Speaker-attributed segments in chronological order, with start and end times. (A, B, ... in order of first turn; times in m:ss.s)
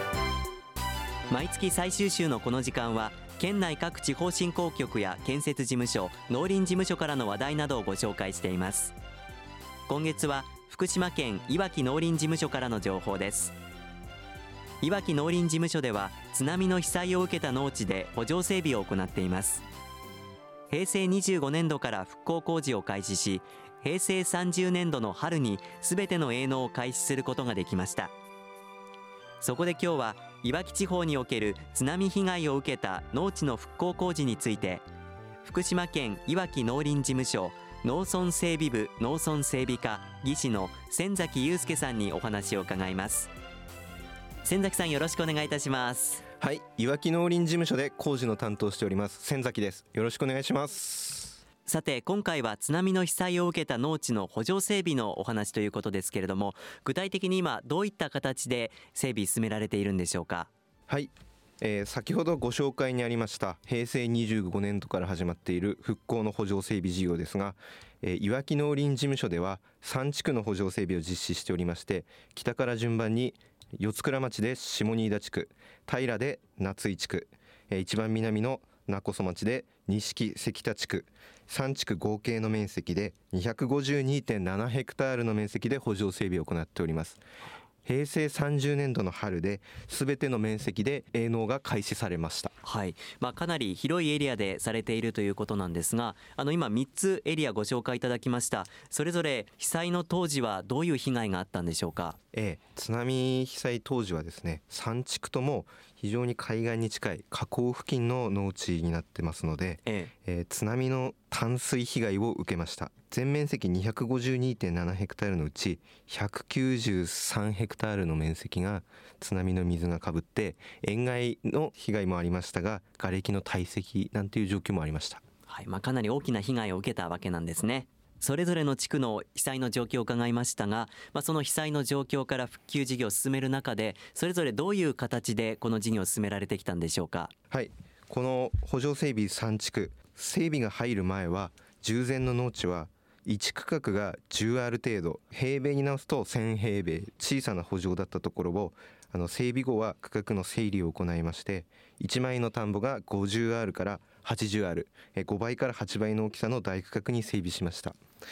0:01.3-0:08.9 A
0:09.9-0:13.5 A
0:14.8-0:19.6 A
0:20.7-0:28.1 A
0:29.4-0:34.8 A
0:35.4-0:43.3 A
0:44.4-0:46.2 A
0:46.4-0:51.4 B
0:51.6-1:00.5 A
1:00.9-1:27.2 B
1:27.8-1:32.5 B
1:32.6-1:42.2 A
1:42.3-2:05.2 B
1:49.8-1:50.1 A
2:05.5-2:17.3 A
2:17.5-2:38.0 B